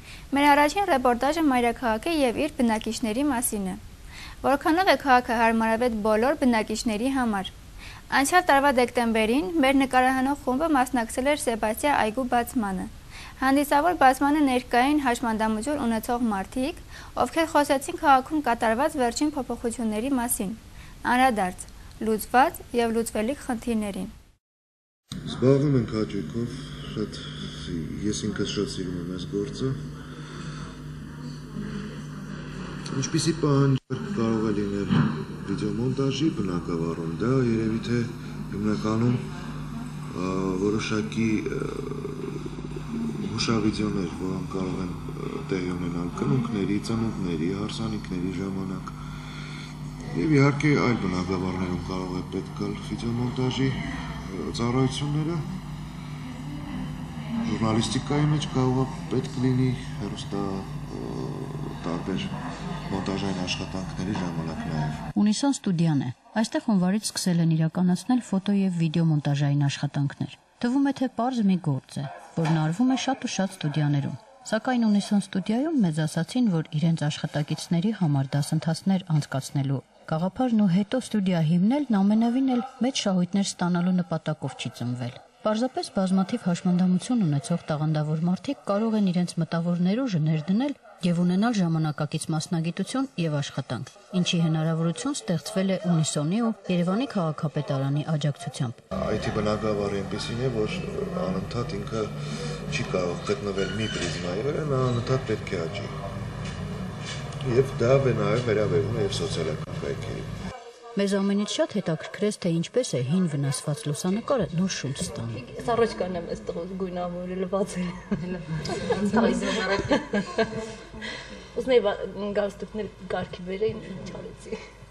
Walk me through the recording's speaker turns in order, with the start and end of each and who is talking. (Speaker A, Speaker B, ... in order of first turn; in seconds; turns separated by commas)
Speaker A: 0.3-3.8, Speaker A: 4.4-7.5, Speaker A: 8.1-24.1, Speaker B: 25.3-29.7, Speaker B: 32.9-39.2, Speaker B: 40.1-42.5, Speaker B: 43.2-48.9, Speaker B: 50.1-55.4, Speaker B: 57.5-62.3, Speaker B: 62.9-65.0, Speaker C: 65.1-98.8, Speaker B: 99.0-102.1, Speaker B: 102.7-105.9, Speaker B: 107.4-110.3, Speaker C: 111.0-115.4, Speaker D: 115.4-118.4, Speaker D: 118.9-120.3, Speaker D: 121.5-124.6